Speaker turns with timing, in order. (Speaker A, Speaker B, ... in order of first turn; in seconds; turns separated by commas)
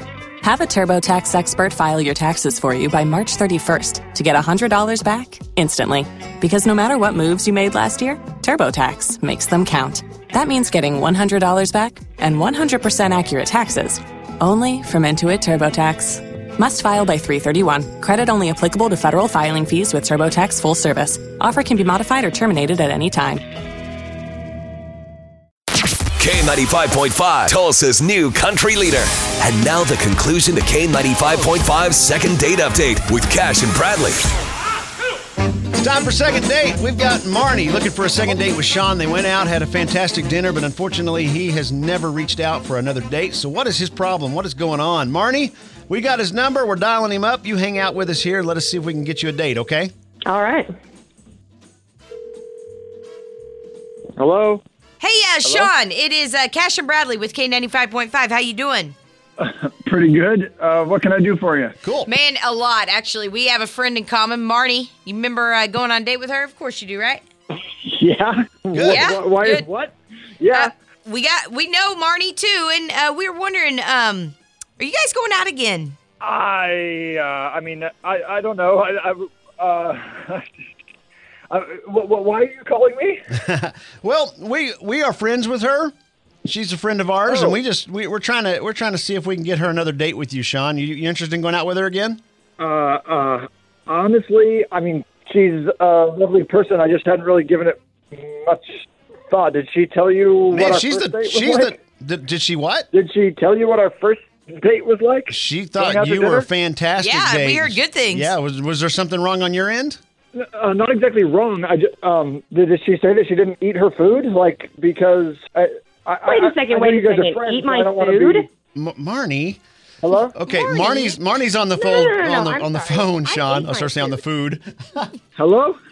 Speaker A: 0.4-23.4, Speaker B: 26.2-34.2, Speaker C: 35.7-49.9, Speaker D: 50.3-50.7, Speaker E: 54.1-54.6, Speaker F: 55.0-58.9, Speaker E: 55.4-55.7, Speaker E: 59.4-61.7, Speaker C: 61.8-62.1, Speaker F: 62.0-67.2, Speaker E: 67.8-70.7, Speaker C: 68.7-69.2, Speaker F: 68.9-69.7, Speaker F: 70.5-76.0, Speaker E: 76.2-80.6, Speaker E: 81.5-83.2, Speaker C: 83.4-85.9, Speaker C: 86.4-92.2, Speaker E: 87.3-87.6, Speaker E: 92.6-101.8, Speaker C: 100.5-102.9, Speaker E: 102.9-106.5, Speaker C: 105.3-110.0, Speaker F: 107.0-108.3, Speaker E: 110.3-118.5, Speaker D: 116.2-118.5, Speaker C: 118.7-119.6, Speaker E: 120.0-120.3, Speaker C: 120.3-125.1, Speaker D: 120.5-121.1, Speaker D: 121.8-124.2, Speaker E: 125.3-125.8